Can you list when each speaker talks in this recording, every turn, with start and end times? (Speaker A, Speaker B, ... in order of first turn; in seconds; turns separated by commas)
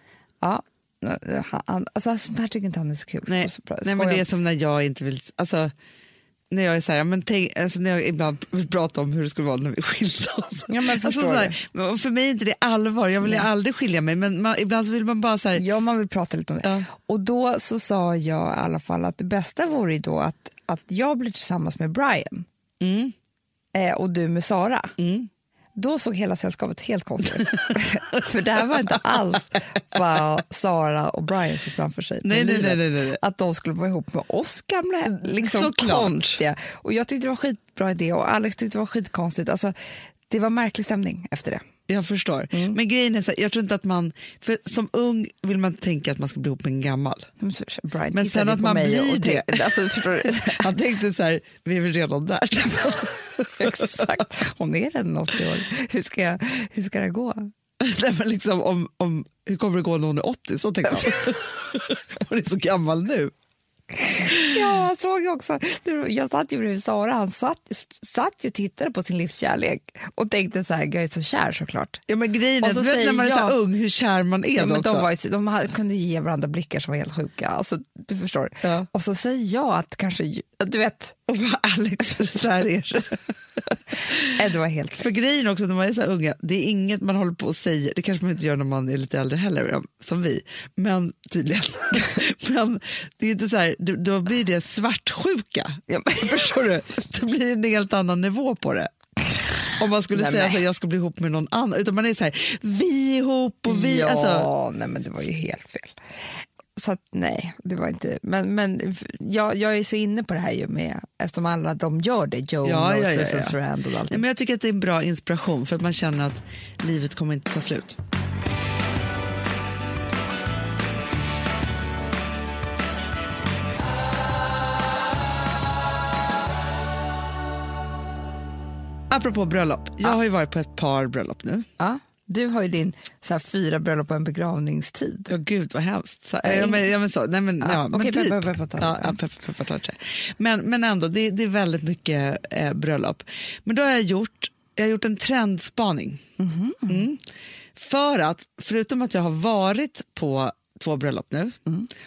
Speaker A: 0.4-4.2, Speaker B: 3.3-5.7, Speaker B: 6.5-15.6, Speaker A: 10.7-11.6, Speaker A: 15.6-22.4, Speaker B: 22.8-23.1, Speaker A: 23.7-24.9, Speaker B: 25.0-25.3, Speaker A: 25.8-39.7, Speaker B: 32.2-33.2, Speaker B: 35.1-36.4, Speaker A: 40.3-41.6, Speaker B: 41.9-47.3, Speaker A: 42.5-42.8, Speaker A: 47.4-50.7, Speaker B: 48.1-54.1, Speaker A: 53.6-57.5, Speaker B: 57.8-63.3, Speaker B: 64.2-64.5, Speaker A: 64.4-72.0, Speaker B: 72.1-75.1, Speaker A: 72.6-73.6, Speaker A: 74.6-81.2, Speaker B: 81.3-83.2, Speaker A: 84.3-85.1, Speaker B: 85.0-98.9, Speaker A: 95.9-96.5, Speaker B: 99.7-104.5, Speaker A: 100.1-100.6, Speaker A: 103.7-105.9, Speaker A: 106.8-114.2, Speaker B: 112.6-113.5, Speaker B: 114.1-118.0, Speaker B: 129.1-131.7, Speaker A: 131.8-135.3, Speaker B: 135.3-146.2, Speaker A: 136.4-136.8, Speaker A: 137.6-139.2, Speaker A: 146.4-147.1, Speaker B: 146.9-147.2, Speaker B: 147.7-151.6